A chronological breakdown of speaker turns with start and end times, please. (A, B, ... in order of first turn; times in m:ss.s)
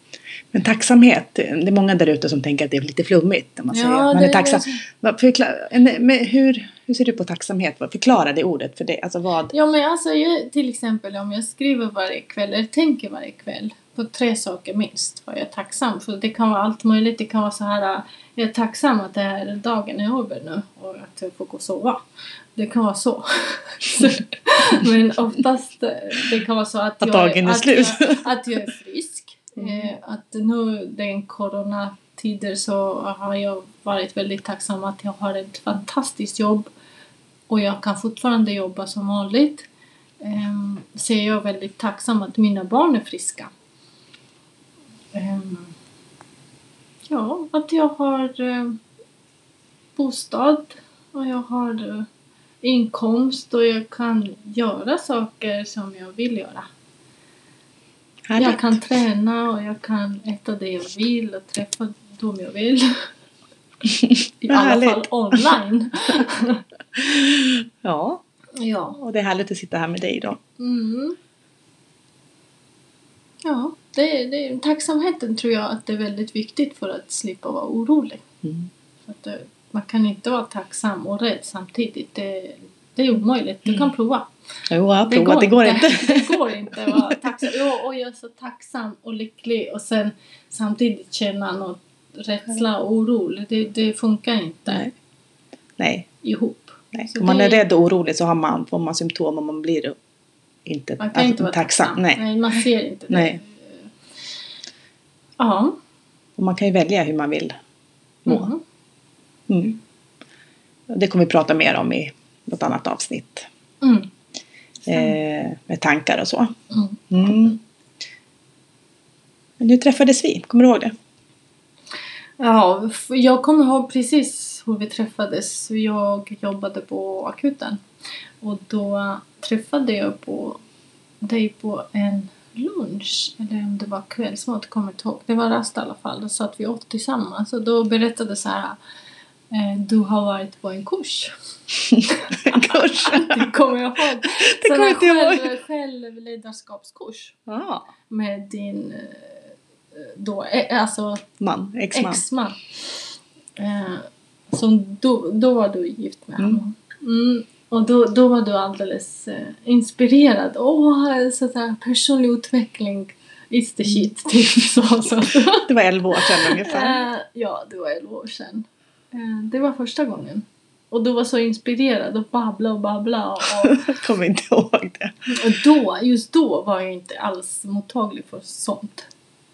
0:00.5-0:09.5 A
0:03.7-0:04.8 B
0:09.5-0:22.0 B
0:22.6-0:36.7 B
0:27.0-0:28.3 A
0:29.6-0:29.9 A
0:37.5-0:39.7 B
0:40.2-0:43.5 B
0:45.1-0:45.7 B
0:47.1-0:48.8 B
0:50.0-0:52.1 B
0:52.6-0:56.7 B
0:58.3-0:58.8 A
0:58.4-1:03.1 B
1:04.0-1:05.5 A
1:04.4-1:06.6 B
1:07.0-1:08.2 A
1:08.6-1:09.0 B
1:09.0-1:10.4 A
1:10.6-1:11.2 B
1:13.4-1:18.2 B
1:18.4-1:18.7 A
1:19.1-1:24.3 B
1:24.7-1:27.2 A
1:25.1-1:34.8 B
1:35.8-1:36.1 A
1:36.2-1:37.6 B
1:36.9-1:40.0 A
1:40.7-1:42.2 A
1:41.0-1:43.9 B
1:43.1-1:43.4 A
1:45.4-1:45.8 B
1:46.4-1:47.6 A
1:48.2-1:48.5 A
1:48.3-1:48.6 B
1:49.5-1:49.8 A
1:50.9-1:53.5 A
1:53.8-1:54.1 B
1:54.9-1:56.5 A
1:56.7-1:57.0 B
1:57.1-1:57.6 A
1:59.6-2:01.0 A
2:02.4-2:07.8 B
2:08.4-2:10.6 B
2:11.2-2:18.8 B
2:19.5-2:27.4 B
2:21.9-2:23.5 A
2:24.2-2:25.5 A
2:27.5-2:27.9 A
2:28.1-2:31.2 B
2:31.4-2:32.2 A
2:31.9-2:53.9 B
2:45.6-2:47.0 A
2:53.6-2:55.5 A
2:55.3-2:59.1 B